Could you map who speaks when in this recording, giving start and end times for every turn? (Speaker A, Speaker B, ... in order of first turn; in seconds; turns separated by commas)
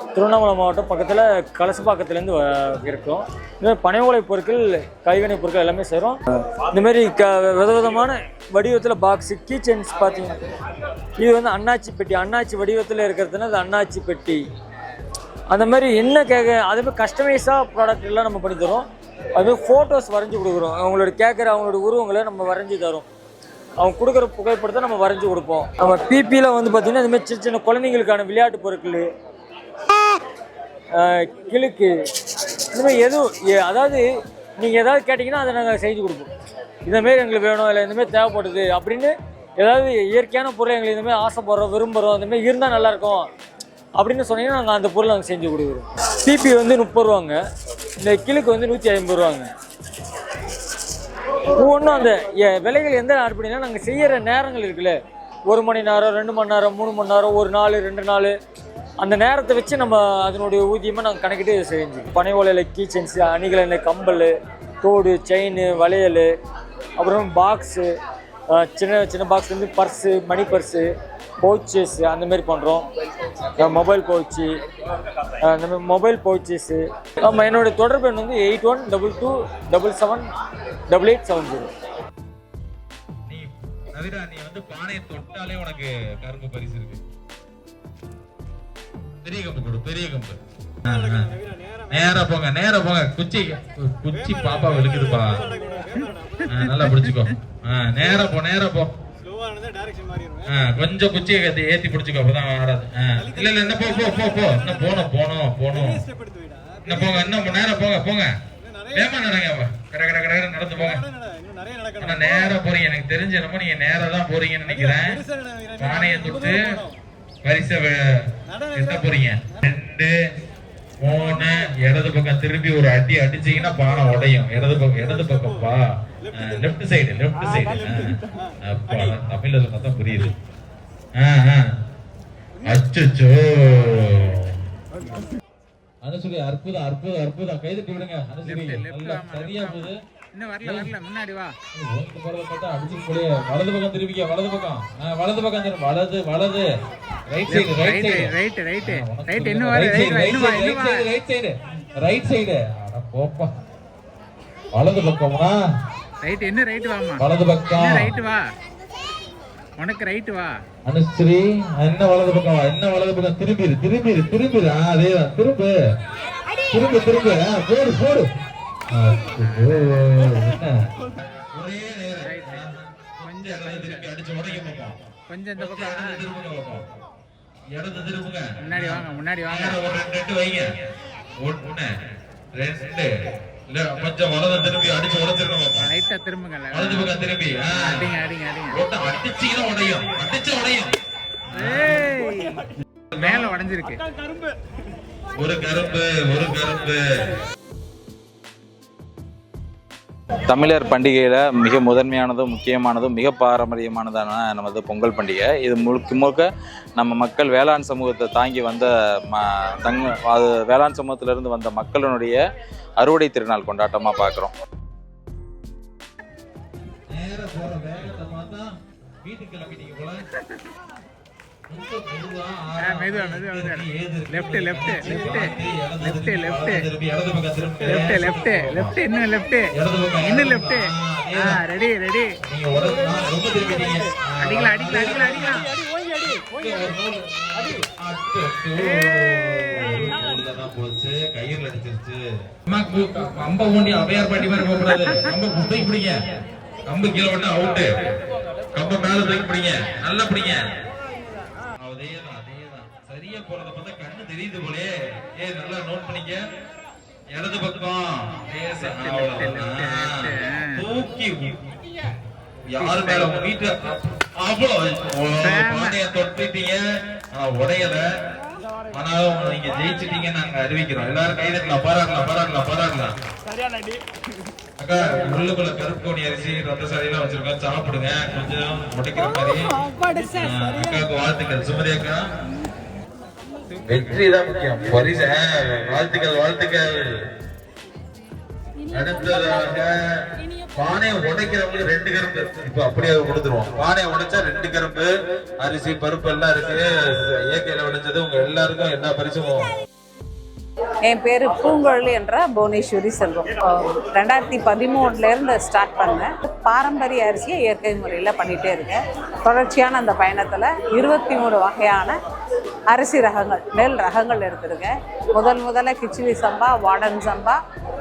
Speaker A: 0.1-10.4, Speaker A: 11.2-14.4, Speaker A: 15.5-18.9, Speaker A: 19.4-23.1, Speaker A: 23.8-29.1, Speaker A: 31.0-31.9, Speaker A: 32.7-34.0, Speaker A: 34.6-36.3, Speaker A: 36.9-43.3, Speaker A: 44.0-47.4, Speaker A: 48.0-49.5, Speaker A: 51.6-58.3, Speaker A: 59.0-64.3, Speaker A: 64.8-66.3, Speaker A: 67.0-67.9, Speaker A: 68.5-70.9, Speaker A: 71.4-72.9, Speaker A: 73.6-74.5, Speaker A: 75.4-80.3, Speaker A: 80.9-81.7, Speaker B: 83.3-87.0, Speaker B: 89.2-91.3, Speaker B: 91.9-95.5, Speaker C: 96.4-97.1, Speaker B: 96.5-98.9, Speaker B: 100.5-106.0, Speaker B: 106.8-108.3, Speaker B: 108.9-111.0, Speaker B: 112.0-115.2, Speaker B: 115.8-116.8, Speaker B: 117.4-118.0, Speaker B: 118.7-120.1, Speaker B: 121.0-130.3, Speaker B: 131.2-131.7, Speaker B: 132.7-134.6, Speaker B: 136.0-140.0, Speaker C: 138.5-141.5, Speaker B: 140.6-140.9, Speaker B: 141.7-146.7, Speaker B: 147.3-153.5, Speaker C: 147.5-151.1, Speaker B: 154.8-155.6, Speaker C: 156.2-158.4, Speaker B: 157.2-158.1, Speaker C: 159.8-160.5, Speaker B: 160.8-165.7, Speaker B: 166.7-168.3, Speaker B: 168.9-170.8, Speaker C: 169.5-169.8, Speaker B: 171.5-175.0, Speaker C: 172.2-172.7, Speaker C: 173.2-174.1, Speaker C: 175.3-176.2, Speaker B: 175.6-176.9, Speaker B: 177.7-180.7, Speaker C: 178.6-179.8, Speaker B: 181.4-181.9, Speaker B: 182.5-183.1, Speaker B: 183.7-185.9, Speaker C: 185.8-187.1, Speaker B: 186.7-188.1, Speaker C: 187.7-188.8, Speaker B: 188.7-190.9, Speaker B: 191.5-192.0, Speaker C: 191.5-192.7, Speaker C: 193.2-194.0, Speaker B: 195.4-197.0, Speaker D: 200.5-212.4, Speaker D: 213.0-214.5, Speaker B: 217.1-220.2, Speaker B: 221.7-229.0, Speaker C: 222.8-226.9, Speaker C: 227.8-229.7, Speaker B: 229.7-231.6, Speaker C: 230.2-232.4, Speaker B: 232.4-246.2, Speaker C: 234.4-235.7, Speaker B: 246.9-247.9, Speaker B: 248.8-250.6, Speaker B: 251.8-256.4, Speaker B: 257.3-262.1, Speaker C: 258.9-260.9, Speaker B: 262.7-268.0, Speaker C: 262.8-263.4, Speaker C: 265.4-266.0, Speaker B: 268.9-273.2, Speaker B: 274.8-279.8, Speaker B: 280.3-282.2, Speaker B: 283.9-286.9, Speaker B: 288.9-290.1, Speaker B: 290.8-295.1, Speaker B: 295.6-299.7, Speaker E: 301.1-312.1, Speaker E: 312.9-317.6